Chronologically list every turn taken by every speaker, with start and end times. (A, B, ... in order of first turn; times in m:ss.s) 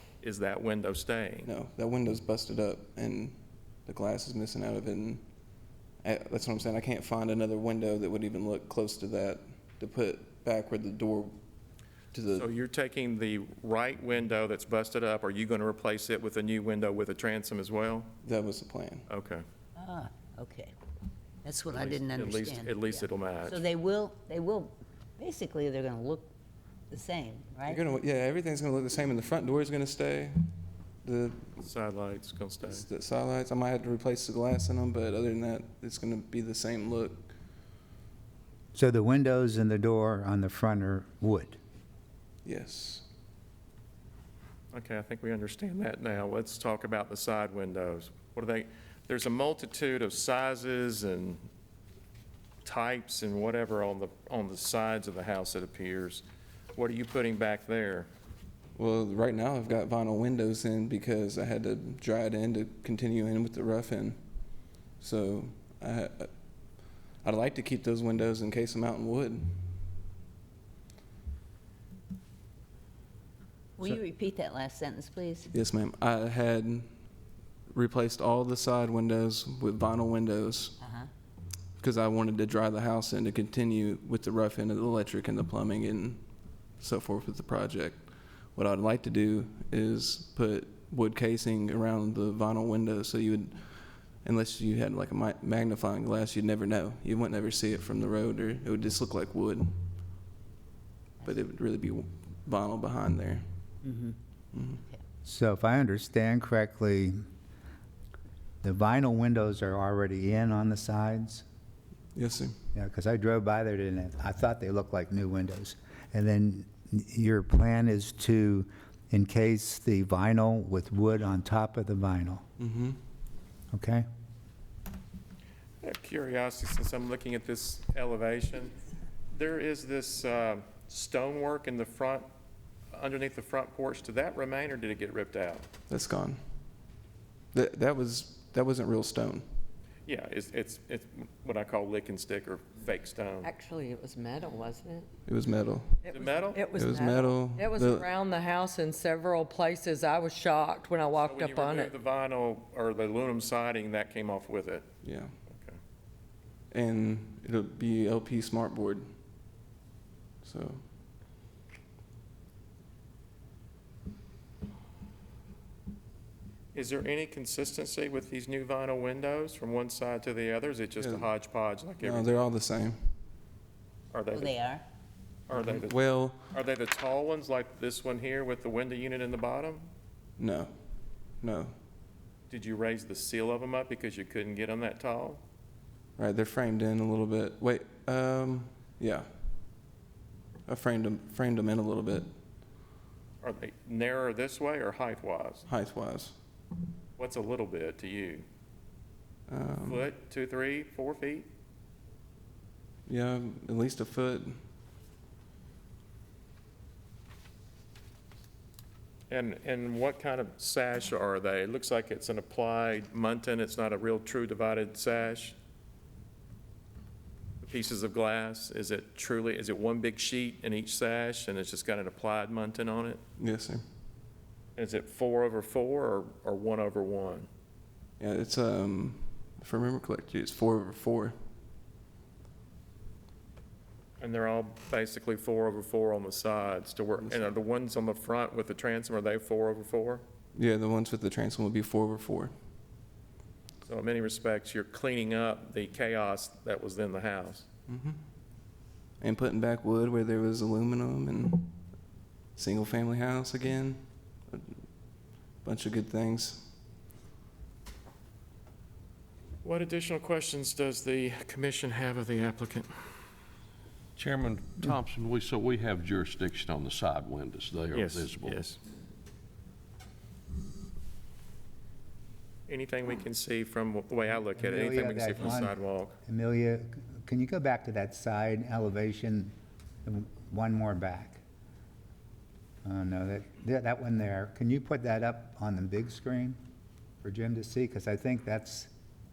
0:00.2-0:01.5 A
0:01.4-0:05.2 B
0:06.0-0:11.4 B
0:12.1-0:12.5 B
0:12.4-0:18.1 A
0:18.2-0:19.1 B
0:19.1-0:19.4 A
0:19.8-0:20.7 C
0:21.4-0:26.3 C
0:21.7-0:23.6 A
0:26.9-0:27.8 C
0:27.7-0:31.7 B
0:31.6-0:32.8 A
0:32.6-0:37.3 B
0:38.7-0:41.6 D
0:42.4-0:43.1 B
0:44.7-0:51.4 A
0:52.6-0:56.2 A
0:56.7-0:58.1 A
0:58.7-1:04.2 B
1:05.0-1:09.6 B
1:13.8-1:15.5 C
1:15.5-1:16.9 B
1:17.7-1:20.8 B
1:20.8-1:21.1 C
1:21.8-1:39.8 B
1:41.2-1:43.4 B
1:44.5-1:44.8 B
1:45.2-1:47.2 D
1:48.6-1:51.4 D
1:52.1-1:52.6 B
1:52.7-2:02.4 D
2:02.6-2:03.0 B
2:03.7-2:04.0 D
2:05.8-2:08.8 A
2:09.3-2:12.3 A
2:12.9-2:15.7 A
2:15.9-2:16.4 B
2:17.5-2:19.4 B
2:20.1-2:23.5 A
2:23.4-2:25.1 E
2:25.2-2:26.1 B
2:26.0-2:31.9 E
2:26.1-2:26.7 A
2:26.7-2:28.1 B
2:31.2-2:34.9 A
2:35.0-2:35.3 B
2:35.5-2:35.8 A
2:36.7-2:39.1 B
2:40.4-2:40.9 B
2:46.7-2:52.4 A
2:51.0-2:51.3 B
2:52.0-2:53.1 B
2:54.1-2:54.7 A
2:54.3-2:54.8 C
2:55.5-2:59.9 A
2:55.5-2:56.5 B
3:00.4-3:00.8 B
3:01.4-3:01.8 B
3:02.5-3:05.4 A
3:06.2-3:09.3 B
3:10.7-3:12.3 B
3:13.4-3:15.7 A
3:15.7-3:16.4 B
3:17.2-3:18.4 A
3:19.5-3:20.1 B
3:19.8-3:21.5 A
3:23.1-3:24.6 B
3:29.3-3:35.6 A
3:37.6-3:43.2 A
3:43.4-3:43.8 B
3:44.8-3:47.5 A
3:48.2-3:51.4 B
3:54.2-4:00.2 A
3:57.2-3:57.6 B
4:00.6-4:02.5 B
4:03.9-4:07.7 A
4:07.9-4:08.2 B
4:09.2-4:11.8 B
4:12.6-4:14.8 B
4:15.6-4:16.7 B
4:19.6-4:22.9 A
4:24.2-4:28.6 F
4:27.9-4:28.8 A
4:32.7-4:36.2 A
4:34.6-4:39.5 D
4:40.0-4:41.4 D
4:42.8-4:46.6 D
4:47.2-4:48.9 D